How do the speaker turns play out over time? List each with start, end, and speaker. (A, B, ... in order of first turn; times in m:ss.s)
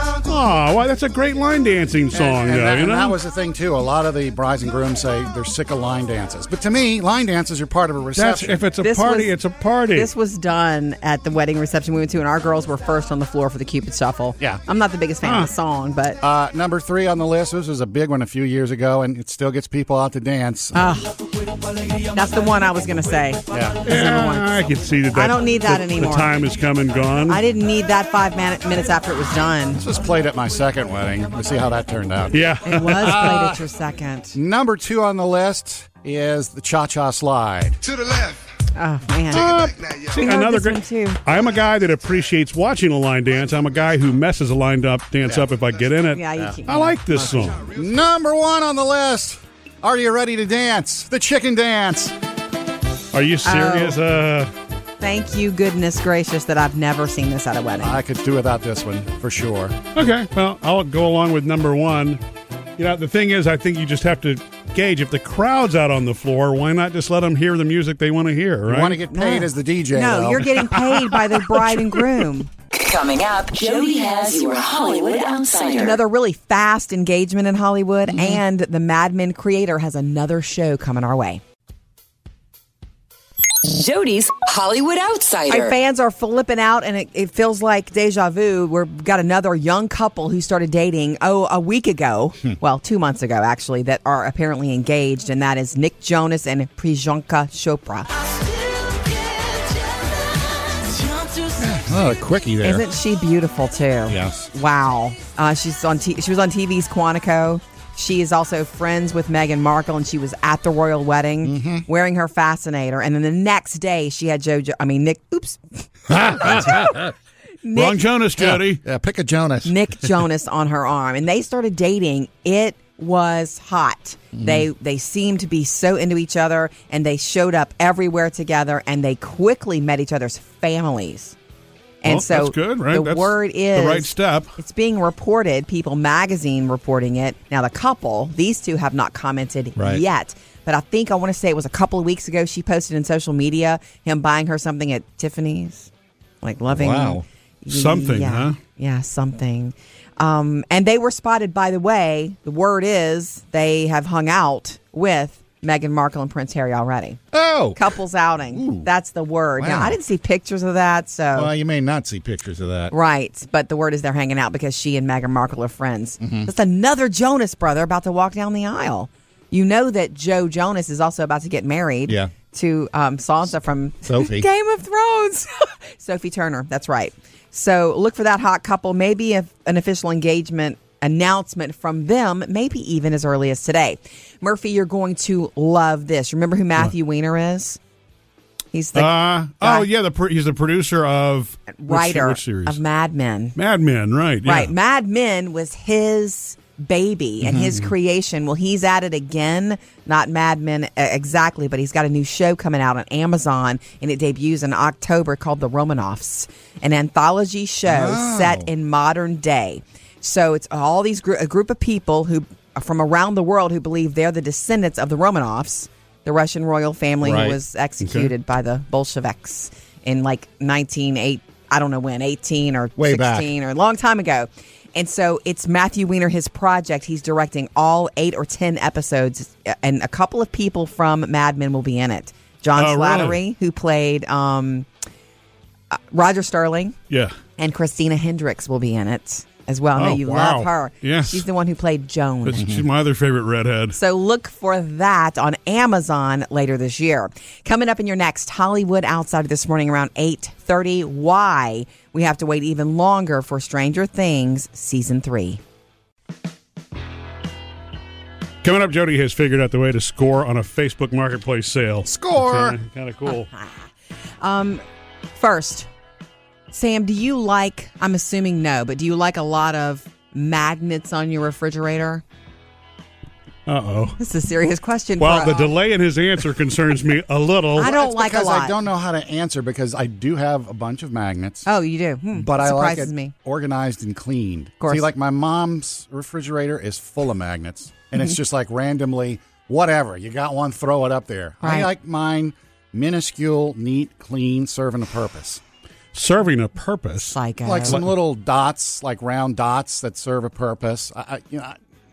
0:00.2-0:03.2 A
0:02.1-0:08.6 B
0:08.1-0:10.1 A
0:08.8-0:09.4 C
0:09.9-0:16.2 C
0:15.2-0:15.5 A
0:16.2-0:20.8 B
0:20.7-0:21.2 C
0:22.1-0:24.5 C
0:23.5-0:23.8 B
0:23.8-0:27.4 A
0:25.1-0:26.3 C
0:27.3-0:29.8 C
0:29.7-0:32.4 B
0:32.3-0:33.5 A
0:32.6-0:34.4 C
0:33.0-0:33.6 B
0:34.3-0:38.4 B
0:38.7-0:41.2 C
0:39.3-0:47.7 A
0:46.1-0:47.4 C
0:47.6-0:52.2 B
0:53.1-0:54.5 A
0:53.4-0:54.0 C
0:55.0-0:58.0 C
0:57.8-0:59.8 B
0:59.9-1:02.2 A
1:02.8-1:09.0 A
1:08.6-1:10.6 B
1:09.1-1:12.5 C
1:10.9-1:12.0 A
1:12.7-1:16.0 D
1:15.8-1:21.4 C
1:18.1-1:18.4 B
1:23.6-1:25.8 D
1:25.5-1:38.1 C
1:41.6-1:42.8 B
1:42.6-1:56.8 C
1:44.1-1:44.5 B
1:51.4-1:51.8 B
1:56.1-1:57.1 B
1:57.6-1:58.0 C
1:57.7-1:58.8 A
1:58.3-1:59.8 B
1:59.6-2:11.4 C
2:04.3-2:04.7 B
2:12.0-2:25.9 C
2:12.0-2:14.5 A
2:19.8-2:20.0 B
2:26.4-2:37.2 C
2:26.7-2:27.2 B
2:27.7-2:28.6 A
2:37.3-2:38.0 B
2:37.8-2:41.5 C
2:38.5-2:38.9 B
2:39.6-2:40.0 B
2:41.3-2:42.9 B
2:42.9-3:07.8 C
2:46.2-2:46.5 B
2:52.1-2:52.3 B
2:54.0-2:54.5 B
3:08.7-3:09.9 C
3:08.9-3:12.8 A
3:11.7-3:13.5 C
3:13.6-3:14.7 A
3:14.4-3:54.9 C
3:17.4-3:17.9 B
3:27.8-3:28.7 B
3:37.2-3:37.6 B
3:38.0-3:38.3 A
3:43.0-3:43.5 B
3:52.7-3:53.4 A
3:55.9-3:57.0 C
3:57.1-3:57.4 A
3:57.6-4:02.7 C
4:00.0-4:01.4 A
4:02.4-4:04.0 A
4:02.6-4:02.8 B
4:03.9-4:15.6 C
4:18.6-4:23.5 A
4:22.0-4:22.8 B
4:23.2-4:23.9 C
4:24.4-4:24.8 C
4:25.3-4:25.9 C
4:26.7-4:32.2 C
4:33.7-4:34.2 A
4:34.2-4:35.7 C
4:35.2-4:37.9 A
4:37.8-4:38.8 C
4:37.8-4:41.7 B
4:41.6-4:43.3 C
4:42.3-4:55.6 B
4:44.8-4:45.0 C
4:51.6-4:51.9 C
4:56.1-4:58.1 A
4:57.3-4:58.0 C
4:57.6-5:01.8 B